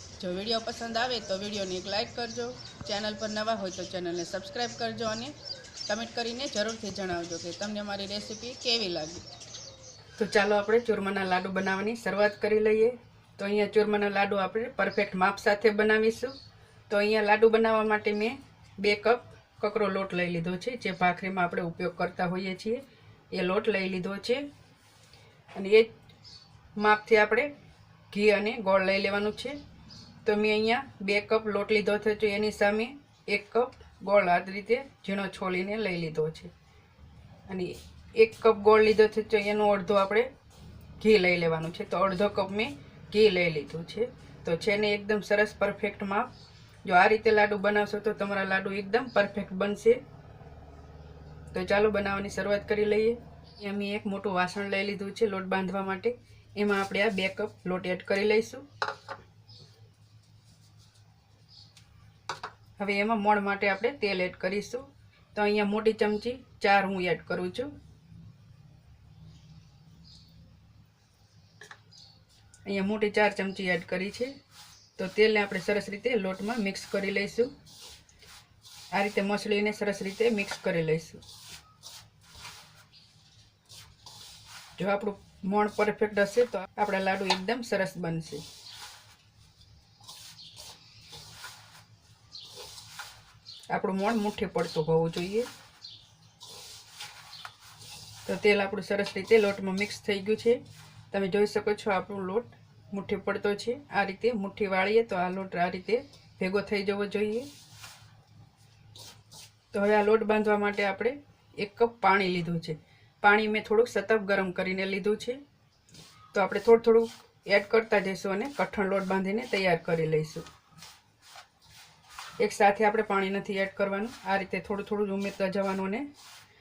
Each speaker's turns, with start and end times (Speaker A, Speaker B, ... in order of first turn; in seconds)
Speaker A: 0.2-5.3, 5.9-9.2, 10.2-16.4, 16.9-24.4, 25.6-25.9, 26.8-27.5, 28.1-29.6, 30.2-36.5, 37.5-40.3, 41.0-46.3, 46.9-50.0, 51.5-58.6, 62.8-67.7, 72.7-74.3, 75.0-77.5, 78.9-81.2, 84.8-88.4, 93.7-95.5, 98.3-107.5, 109.7-115.4, 116.3-120.5, 122.4-126.1